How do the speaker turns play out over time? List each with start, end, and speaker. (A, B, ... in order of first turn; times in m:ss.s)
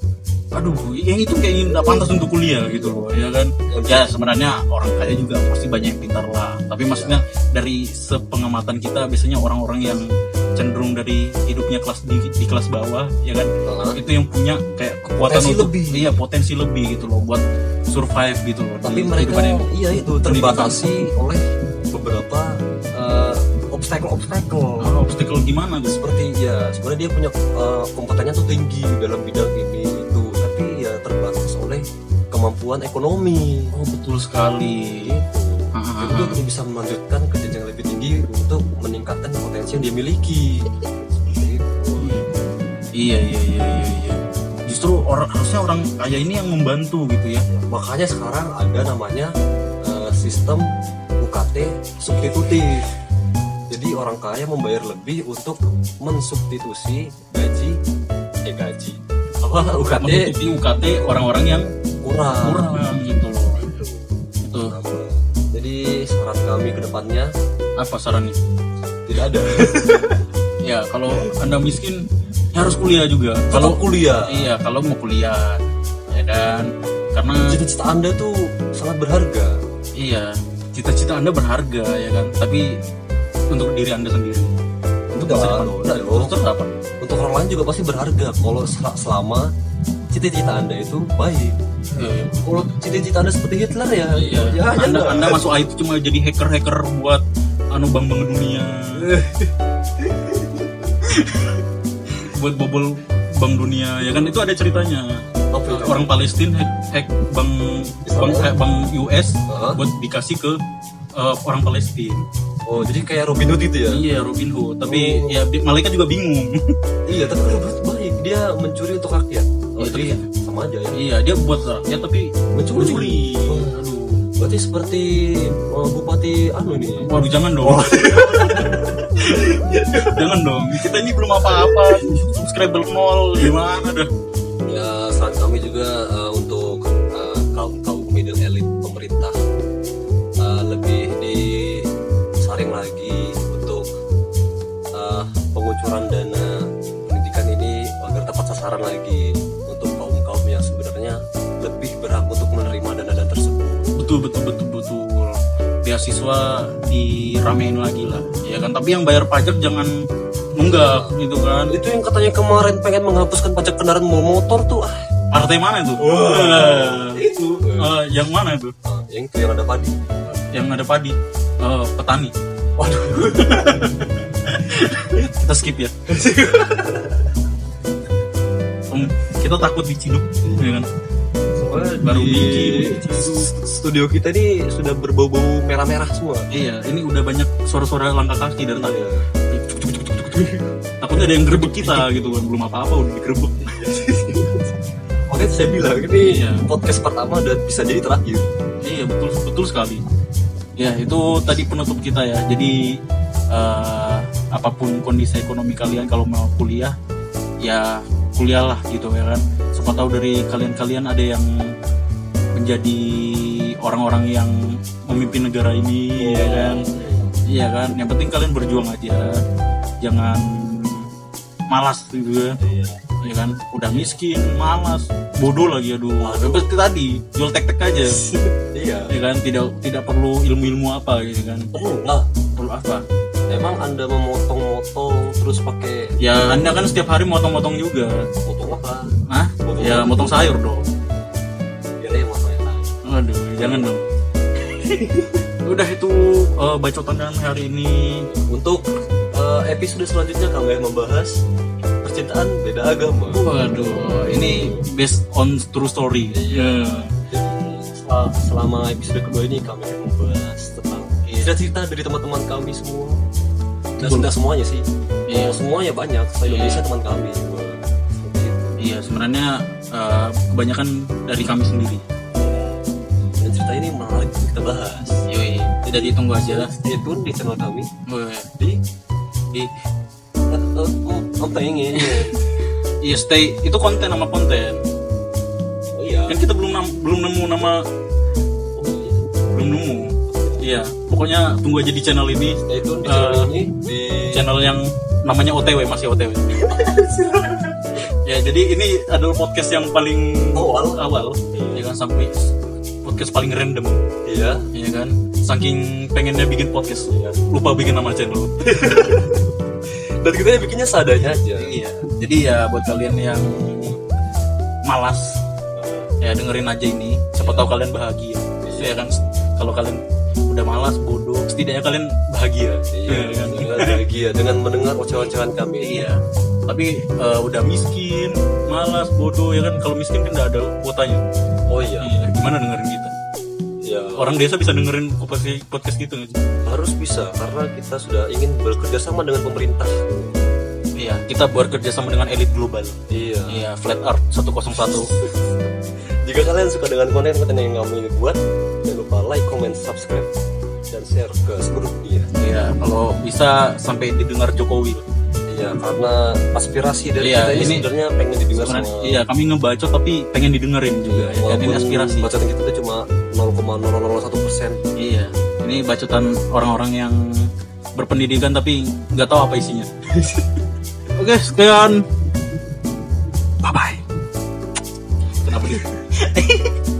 0:00.5-0:20.8 A
0:01.8-0:02.2 B
0:02.7-0:03.0 B
0:03.7-0:04.1 B
0:06.8-0:07.2 B
0:13.6-0:14.0 B
0:15.2-0:16.1 B
0:18.8-0:24.9 B
0:24.8-0:26.2 A
0:25.9-0:33.7 B
0:33.7-0:35.1 A
0:35.0-0:42.2 B
0:35.7-0:36.4 A
0:42.0-0:42.3 A
0:43.0-0:47.4 A
0:47.5-0:49.3 B
0:49.8-0:50.6 B
0:51.2-0:52.8 B
0:52.1-0:52.3 A
0:53.7-0:57.7 B
0:58.4-1:01.1 B
1:00.0-1:01.7 A
1:02.0-1:02.8 B
1:02.4-1:03.7 A
1:03.5-1:04.0 B
1:04.4-1:04.7 A
1:04.5-1:07.3 B
1:07.8-1:08.4 A
1:09.1-1:10.2 B
1:10.6-1:12.0 A
1:12.5-1:17.5 A
1:13.5-1:14.5 B
1:17.5-1:19.6 B
1:20.0-1:22.8 A
1:23.5-1:24.5 A
1:25.1-1:26.3 B
1:25.2-1:26.7 A
1:27.0-1:29.5 B
1:30.1-1:35.4 B
1:31.9-1:32.7 A
1:34.2-1:37.2 A
1:37.7-1:39.1 A
1:39.0-1:40.9 B
1:41.0-1:41.6 A
1:42.1-1:50.6 A
1:45.5-1:46.1 B
1:48.0-1:48.5 B
1:49.5-1:49.8 B
1:51.1-1:52.2 A
1:52.7-1:54.0 B
1:53.9-1:56.6 A
1:54.8-1:55.3 B
1:57.1-2:01.0 B
1:59.8-2:00.2 A
2:00.9-2:04.2 A
2:02.5-2:07.1 B
2:07.0-2:14.1 A
2:07.6-2:10.2 B
2:11.3-2:12.2 B
2:14.7-2:19.4 B
2:20.4-2:21.9 B
2:22.4-2:23.9 B
2:25.0-2:33.9 B
2:34.0-2:39.9 A
2:40.6-2:41.7 A
2:40.6-2:41.1 B
2:41.7-2:45.0 B
2:45.3-2:47.2 A
2:46.0-2:47.9 B
2:47.8-2:48.7 A
2:48.8-2:49.9 B
2:50.3-2:52.3 A
2:52.8-2:54.1 B
2:53.2-2:55.9 A
2:56.1-2:57.3 B
2:58.9-3:00.9 A
3:01.6-3:06.5 B
3:01.7-3:03.5 A
3:06.5-3:09.6 A
3:08.8-3:12.4 B
3:11.0-3:13.7 A
3:13.7-3:18.5 B
3:16.2-3:16.6 A
3:18.8-3:20.0 A
3:20.8-3:23.0 A
3:23.5-3:26.9 A
3:27.6-3:31.5 A
3:32.5-3:34.5 A
3:35.1-3:36.8 A
3:36.2-3:37.3 B
3:37.5-3:39.4 A
3:40.0-3:41.1 A
3:41.7-3:42.6 A
3:42.6-3:43.0 B
3:43.2-3:48.2 A
3:46.2-3:46.7 B
3:48.1-3:49.1 B
3:49.1-3:51.7 A
3:51.7-3:52.2 B
3:52.6-3:53.0 A
3:53.5-3:56.6 B
3:56.2-3:58.2 A
3:58.4-3:59.1 B
3:59.3-4:00.8 A
3:59.6-4:00.5 B
4:02.0-4:02.9 B
4:03.0-4:04.0 A
4:04.8-4:05.4 B
4:05.6-4:08.3 A
4:08.3-4:11.4 B
4:12.0-4:14.8 B
4:13.3-4:17.1 A
4:16.3-4:23.2 B
4:21.2-4:21.5 A
4:24.0-4:24.3 A
4:24.0-4:28.8 B
4:25.3-4:25.6 A
4:26.4-4:26.8 A
4:28.8-4:32.0 A
4:32.4-4:32.8 B
4:33.4-4:35.2 B
4:35.3-4:36.7 A
4:35.8-4:37.9 B
4:38.1-4:38.5 A
4:40.5-4:42.4 B
4:43.0-4:44.8 A
4:45.9-4:46.4 B
4:46.3-4:47.8 A
4:48.8-4:49.3 B
4:49.5-4:53.5 A
4:50.3-4:50.6 B
4:52.6-4:54.4 B
4:54.3-4:56.7 A
4:56.7-4:58.0 B
4:58.1-5:04.0 A
5:00.5-5:01.8 B
5:04.2-5:04.6 B
5:04.7-5:08.6 A
5:08.6-5:11.7 B
5:11.2-5:14.0 A
5:14.8-5:15.4 A
5:15.7-5:16.1 B
5:16.2-5:24.0 A
5:17.4-5:17.7 B
5:18.6-5:19.1 B
5:22.9-5:26.1 B
5:25.8-5:31.2 A
5:31.7-5:32.1 B
5:32.0-5:33.1 A
5:33.8-5:34.3 B
5:34.2-5:36.4 A
5:36.6-5:40.4 B
5:41.0-5:43.0 A
5:43.1-5:43.6 B
5:43.5-5:45.1 A
5:44.8-5:45.3 B
5:46.2-5:50.3 B
5:50.9-5:52.3 B
5:52.4-5:55.0 A
5:55.5-5:59.2 B
5:57.2-5:57.8 A
5:58.6-6:02.3 A
6:01.0-6:04.8 B
6:05.0-6:07.2 A
6:08.0-6:09.9 A
6:10.1-6:10.5 B
6:11.1-6:12.0 A
6:13.7-6:14.0 A
6:15.4-6:16.7 A